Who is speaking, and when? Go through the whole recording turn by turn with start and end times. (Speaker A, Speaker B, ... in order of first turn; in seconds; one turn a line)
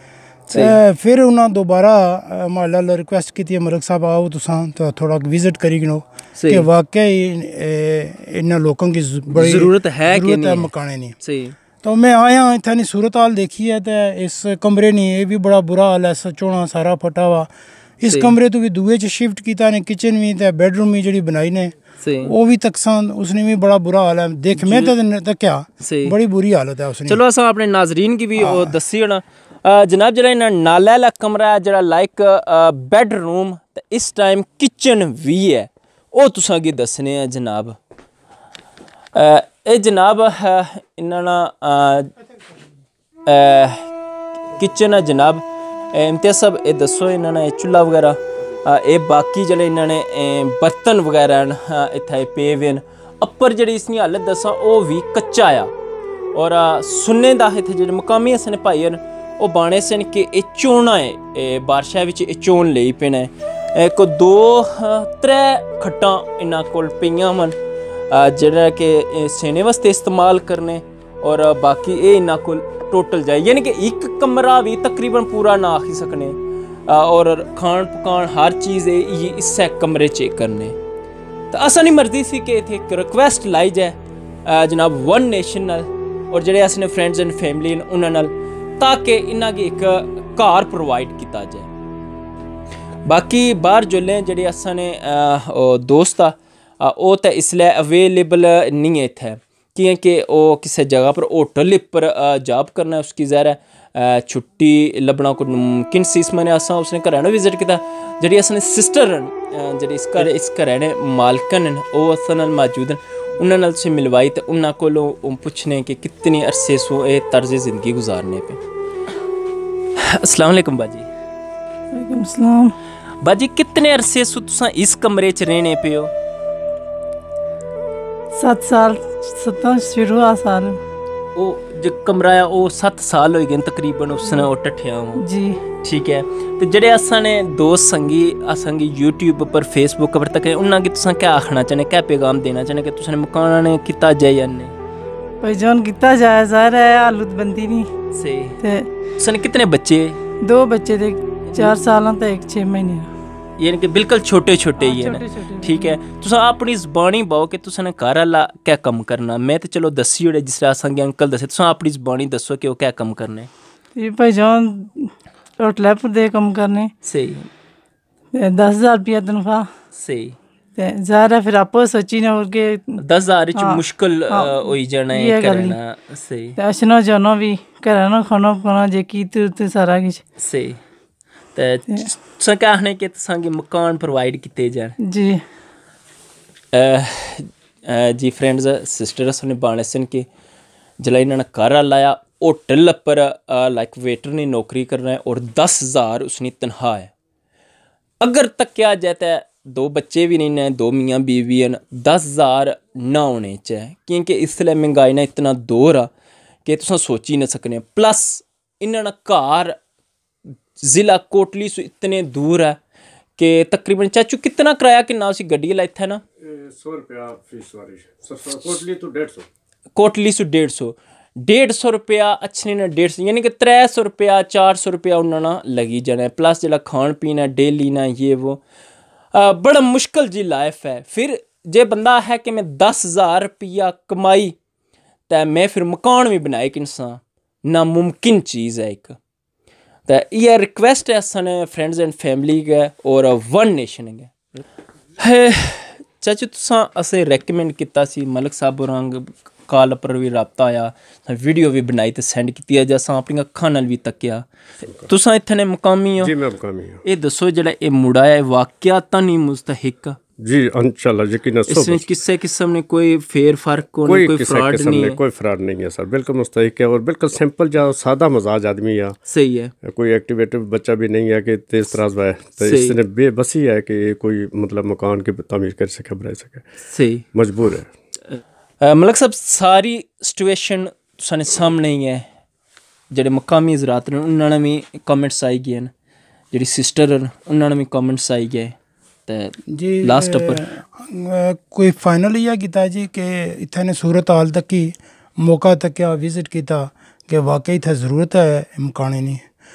Speaker A: 0.5-11.2
Speaker B: 0.5-0.8
Speaker B: 6.3-6.7
Speaker B: 9.3-10.7
Speaker B: 11.2-11.6
Speaker A: 11.8-27.2
Speaker B: 18.1-18.4
Speaker B: 22.0-22.3
Speaker B: 24.6-24.9
Speaker B: 25.8-26.1
Speaker B: 27.1-37.8
Speaker A: 28.4-28.8
Speaker B: 39.1-42.1
Speaker B: 43.2-43.9
Speaker B: 44.5-55.7
Speaker B: 56.3-67.5
Speaker B: 68.1-80.8
Speaker B: 81.5-91.7
Speaker B: 93.0-118.6
Speaker B: 120.0-121.1
Speaker C: 121.9-122.7
Speaker B: 123.2-126.1
Speaker C: 128.3-130.8
Speaker B: 131.3-135.2
Speaker C: 135.2-135.6
Speaker B: 135.8-144.7
Speaker C: 145.4-147.9
Speaker B: 148.1-148.6
Speaker C: 148.6-148.9
Speaker B: 149.2-150.2
Speaker C: 150.4-153.1
Speaker B: 153.6-163.5
Speaker C: 154.8-156.0
Speaker C: 163.9-166.9
Speaker B: 167.0-167.5
Speaker C: 168.3-169.7
Speaker B: 169.9-170.3
Speaker C: 170.8-173.0
Speaker B: 173.0-176.6
Speaker C: 173.6-175.8
Speaker C: 176.6-180.2
Speaker B: 180.4-180.8
Speaker B: 181.5-185.0
Speaker C: 185.0-185.4
Speaker B: 186.7-190.3
Speaker B: 191.0-197.1
Speaker B: 198.2-206.1
Speaker B: 206.6-209.8
Speaker B: 210.8-212.8
Speaker B: 213.4-216.2
Speaker D: 216.4-219.4
Speaker B: 219.9-228.6
Speaker B: 229.3-234.6
Speaker B: 235.3-239.2
Speaker B: 240.1-244.3
Speaker B: 245.2-254.4
Speaker B: 255.1-256.3
Speaker D: 256.2-257.0
Speaker B: 257.0-260.2
Speaker D: 260.4-262.1
Speaker B: 261.7-265.2
Speaker D: 264.0-269.1
Speaker B: 269.3-269.7
Speaker D: 269.8-276.6
Speaker B: 272.6-273.0
Speaker B: 276.8-277.3
Speaker D: 277.3-277.9
Speaker B: 278.8-282.2
Speaker B: 283.1-285.9
Speaker B: 286.5-288.8
Speaker B: 289.3-290.6
Speaker A: 289.7-299.4